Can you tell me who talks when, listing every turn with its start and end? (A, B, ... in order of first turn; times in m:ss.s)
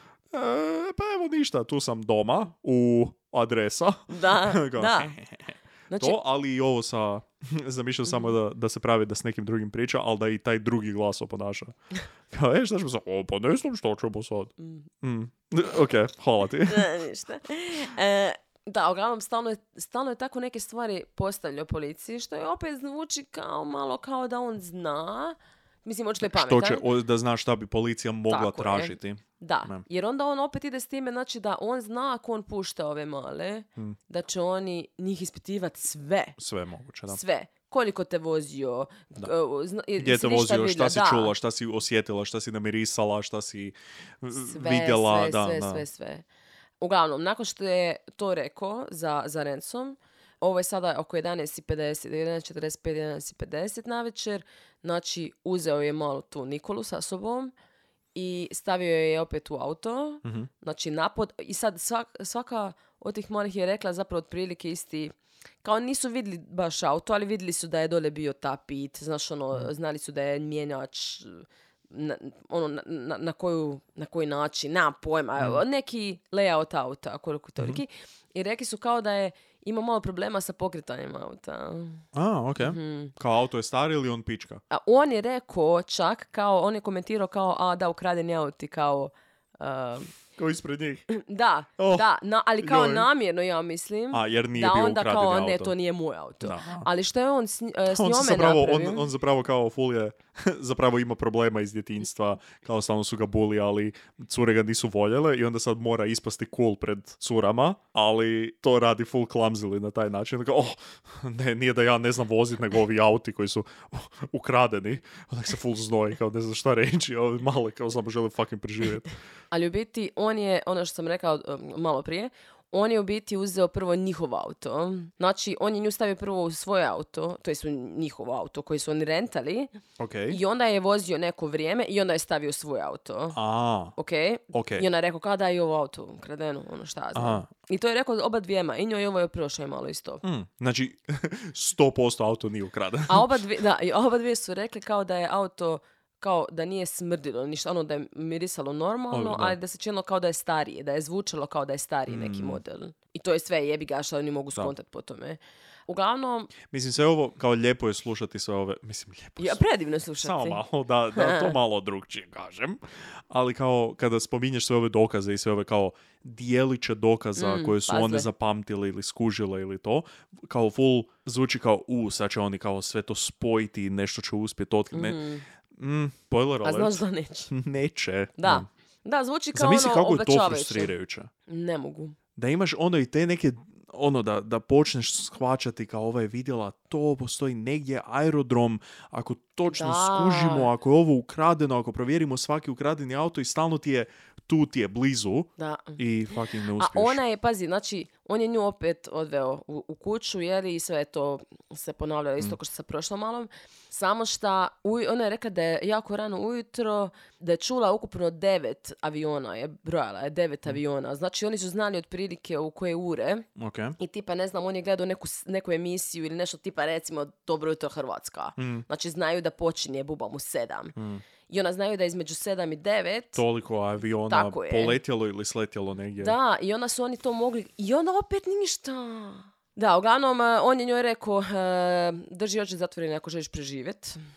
0:00.3-0:11.7 A
0:04.1-0:05.1 B
0:05.9-0:06.2 B
0:12.3-0:16.9 A
0:14.6-0:14.9 B
0:16.7-0:26.9 B
0:26.2-0:29.8 A
0:28.3-0:36.4 B
0:36.4-0:37.2 A
0:37.1-0:41.3 B
0:40.0-0:45.8 A
0:44.4-0:46.2 B
0:46.8-0:57.5 B
0:58.1-1:22.0 B
1:00.2-1:00.5 A
1:22.1-1:24.6 A
1:22.6-1:23.1 B
1:24.7-1:30.1 B
1:30.4-1:31.1 A
1:31.1-1:39.1 B
1:31.8-1:32.1 A
1:32.6-1:33.1 A
1:34.1-1:35.7 A
1:36.4-1:36.9 A
1:37.9-1:59.1 A
1:59.5-2:09.8 B
2:10.0-2:10.4 A
2:10.3-2:13.4 B
2:13.3-2:14.0 A
2:14.0-2:20.2 B
2:14.5-2:14.8 A
2:17.1-2:17.5 A
2:20.2-2:23.4 A
2:23.1-2:36.5 B
2:29.1-2:29.6 A
2:32.1-2:32.6 A
2:36.7-2:39.6 A
2:39.4-2:40.6 B
2:40.2-2:55.2 A
2:41.1-2:41.6 B
2:47.4-2:48.3 B
2:54.9-2:55.4 B
2:55.7-2:58.7 A
2:56.6-2:57.5 B
2:58.4-3:00.9 B
2:59.5-3:01.3 A
3:01.5-3:02.2 B
3:02.4-3:17.2 A
3:09.7-3:10.7 B
3:15.6-3:33.4 B
3:33.6-3:34.0 A
3:34.0-3:40.9 B
3:38.6-3:38.9 A
3:41.0-3:41.2 A
3:41.5-3:43.4 B
3:43.3-3:46.3 A
3:44.3-3:45.0 B
3:46.2-3:54.2 B